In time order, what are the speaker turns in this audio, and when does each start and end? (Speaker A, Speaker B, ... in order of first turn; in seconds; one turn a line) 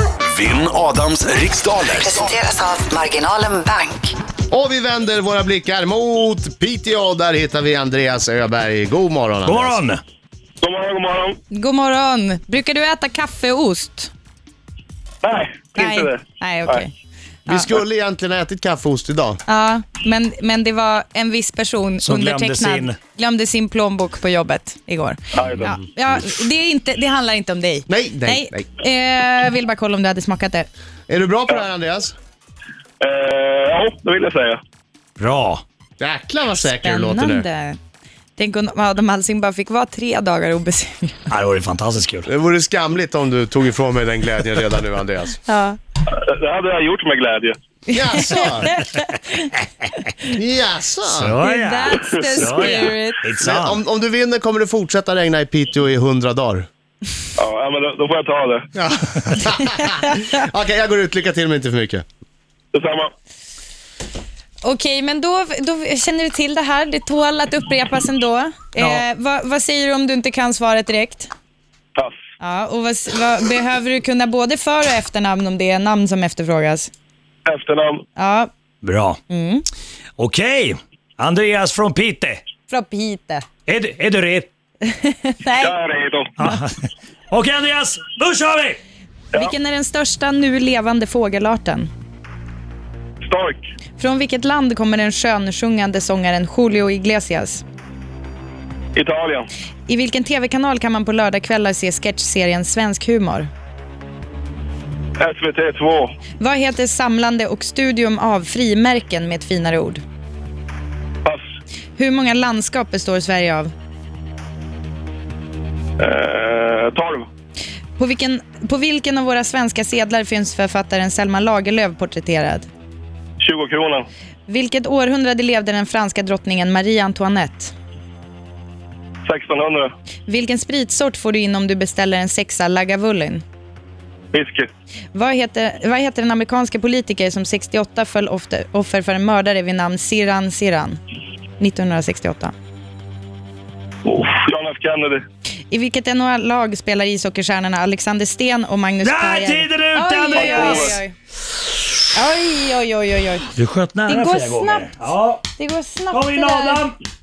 Speaker A: 0.3-2.4
Speaker B: 1.9-4.2
Speaker C: 4.5-9.8
Speaker D: 9.4-10.0
Speaker E: 10.6-11.4
Speaker F: 11.5-14.1
Speaker E: 15.2-16.8
Speaker F: 15.8-16.9
Speaker C: 17.5-19.4
Speaker F: 19.5-30.7
Speaker D: 22.0-23.0
Speaker E: 25.4-25.7
Speaker C: 25.6-25.8
Speaker C: 27.9-28.7
Speaker C: 31.1-32.1
Speaker E: 33.0-34.6
Speaker D: 35.2-35.6
Speaker C: 36.0-37.5
Speaker F: 36.8-37.8
Speaker F: 38.4-41.2
Speaker D: 41.3-42.3
Speaker C: 42.3-45.4
Speaker F: 45.5-45.8
Speaker E: 46.1-47.6
Speaker C: 47.9-48.7
Speaker F: 47.9-49.5
Speaker C: 50.3-51.4
Speaker D: 51.1-53.8
Speaker F: 51.4-53.2
Speaker C: 53.4-56.7
Speaker E: 57.4-58.7
Speaker C: 58.8-62.0
Speaker E: 62.7-63.1
Speaker F: 64.6-71.3
Speaker D: 68.8-69.0
Speaker F: 72.4-76.9
Speaker E: 77.5-78.0
Speaker F: 78.2-78.5
Speaker D: 78.8-79.2
Speaker F: 79.3-79.7
Speaker D: 80.2-82.4
Speaker F: 82.7-83.5
Speaker D: 83.7-84.5
Speaker F: 84.9-85.8
Speaker E: 85.5-86.3
Speaker D: 86.4-86.8
Speaker D: 87.3-88.8
Speaker F: 89.3-91.9
Speaker E: 93.2-93.6
Speaker F: 94.0-97.6
Speaker E: 99.0-99.5
Speaker F: 99.9-103.5
Speaker E: 105.2-106.1
Speaker F: 106.4-110.0
Speaker F: 112.0-113.7
Speaker E: 116.0-117.3
Speaker F: 118.0-122.7
Speaker E: 123.4-124.1
Speaker F: 124.5-127.7
Speaker E: 129.3-129.9
Speaker F: 130.3-133.4
Speaker E: 134.3-134.7
Speaker F: 135.1-141.0
Speaker F: 141.6-142.5
Speaker E: 144.1-145.2
Speaker F: 145.7-151.1
Speaker D: 149.0-151.0
Speaker E: 150.3-151.0
Speaker F: 152.1-153.5
Speaker D: 153.6-155.5
Speaker F: 154.1-155.0
Speaker F: 155.6-156.9
Speaker D: 156.1-156.9